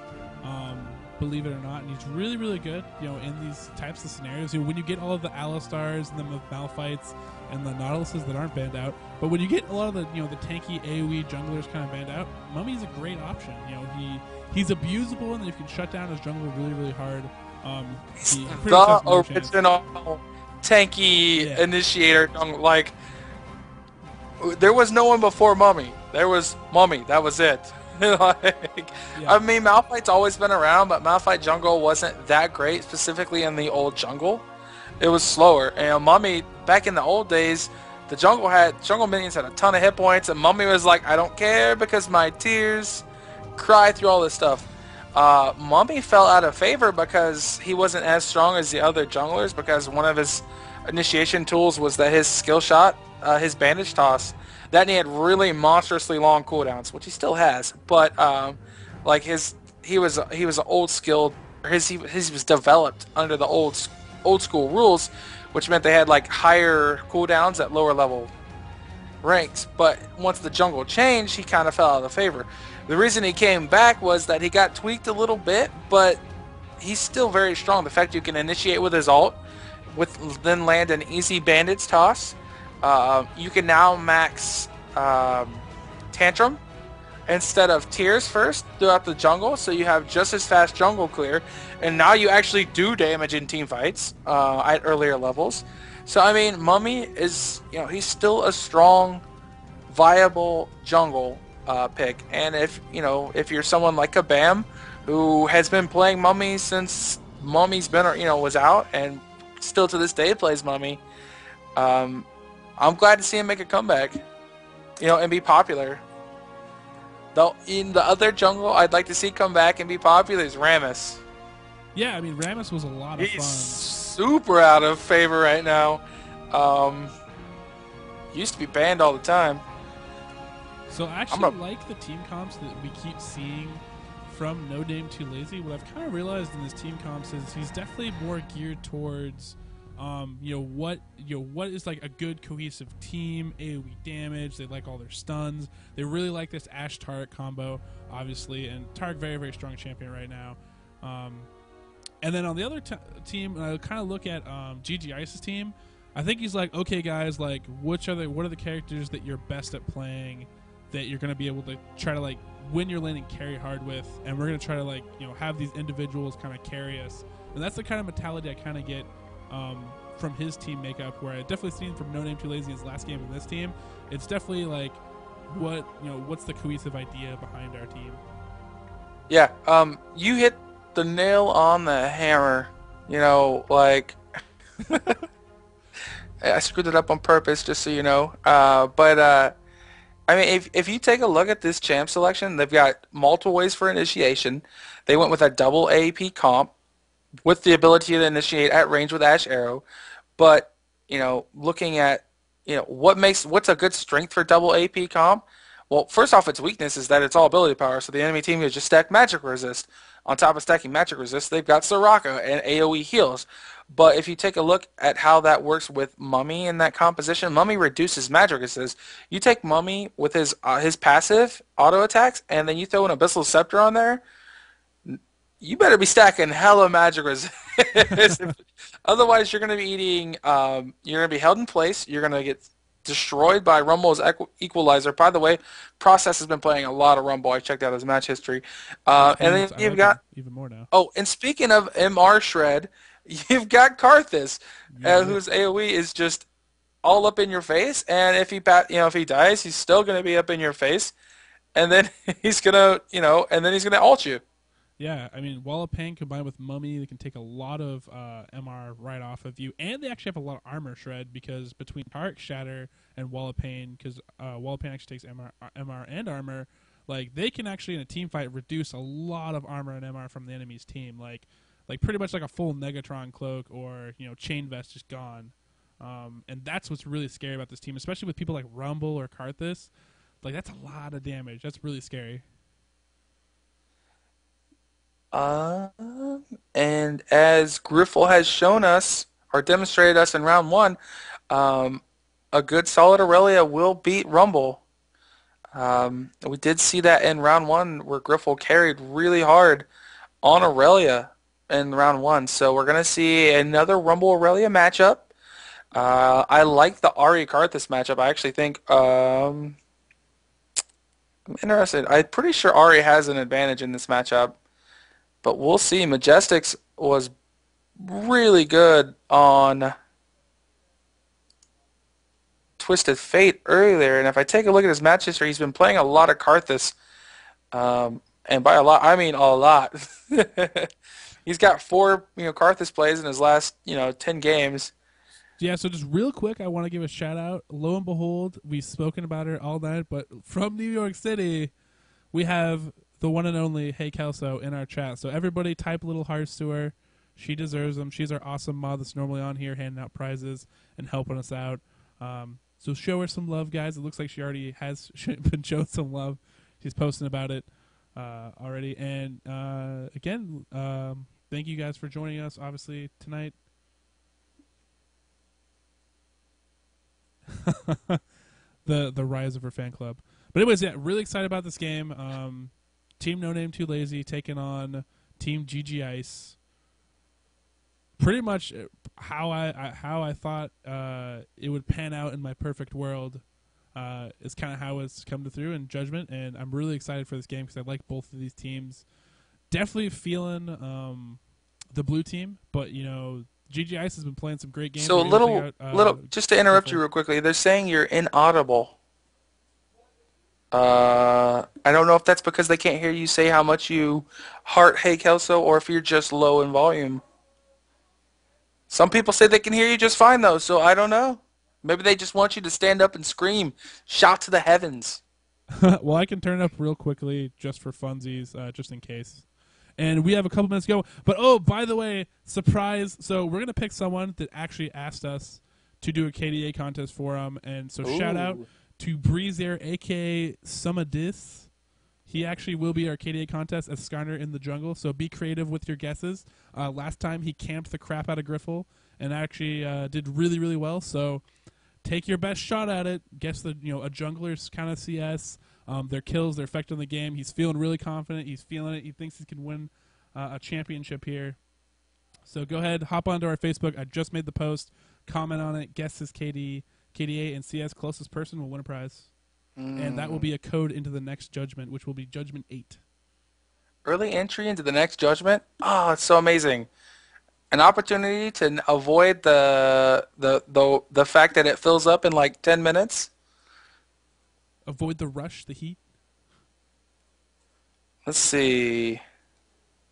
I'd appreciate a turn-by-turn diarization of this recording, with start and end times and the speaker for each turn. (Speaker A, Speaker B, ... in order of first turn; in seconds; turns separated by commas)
Speaker A: 0.4-19.5, Speaker B: 18.3-22.9, Speaker A: 21.4-21.6, Speaker B: 24.4-34.5, Speaker A: 29.1-29.4, Speaker B: 35.0-43.0, Speaker B: 43.6-68.3, Speaker B: 69.2-76.2, Speaker B: 76.8-79.4, Speaker B: 79.9-86.6, Speaker B: 87.3-99.2, Speaker B: 99.9-111.0, Speaker B: 111.8-112.3, Speaker B: 112.8-114.2, Speaker B: 115.0-116.0, Speaker B: 117.3-121.2, Speaker A: 122.0-123.8, Speaker B: 123.2-127.1, Speaker B: 128.3-129.6, Speaker A: 130.9-151.5, Speaker A: 152.2-178.2, Speaker B: 179.3-184.2, Speaker A: 184.9-185.2, Speaker B: 186.4-189.6, Speaker B: 190.3-196.7, Speaker B: 197.4-199.8, Speaker B: 200.4-224.2, Speaker B: 225.1-240.2, Speaker A: 228.1-228.5, Speaker A: 239.2-240.9, Speaker B: 240.9-246.4, Speaker A: 244.9-245.4, Speaker B: 247.0-251.1, Speaker B: 251.8-254.4, Speaker A: 255.0-279.9, Speaker A: 280.4-282.4, Speaker B: 285.3-291.0, Speaker B: 291.5-294.8, Speaker B: 295.7-299.9, Speaker B: 300.4-305.3, Speaker B: 305.9-309.8, Speaker B: 311.5-314.6, Speaker B: 315.4-317.3, Speaker B: 318.0-319.9, Speaker B: 322.8-327.0, Speaker B: 327.7-330.9, Speaker B: 331.4-334.9, Speaker A: 335.6-341.7, Speaker A: 342.3-363.6, Speaker A: 367.5-368.2, Speaker A: 368.9-376.6, Speaker A: 378.2-383.4, Speaker A: 383.9-389.0, Speaker A: 389.7-391.4, Speaker A: 391.9-397.0, Speaker B: 395.0-398.9, Speaker B: 400.7-407.2, Speaker B: 408.9-415.2, Speaker A: 415.7-419.5, Speaker A: 420.0-431.7, Speaker B: 428.0-428.6, Speaker A: 432.3-441.4, Speaker A: 442.0-451.6, Speaker A: 452.5-459.3, Speaker B: 459.8-460.5, Speaker A: 460.0-463.0, Speaker B: 464.1-466.9, Speaker B: 467.7-473.3, Speaker A: 474.9-476.0, Speaker B: 478.3-479.2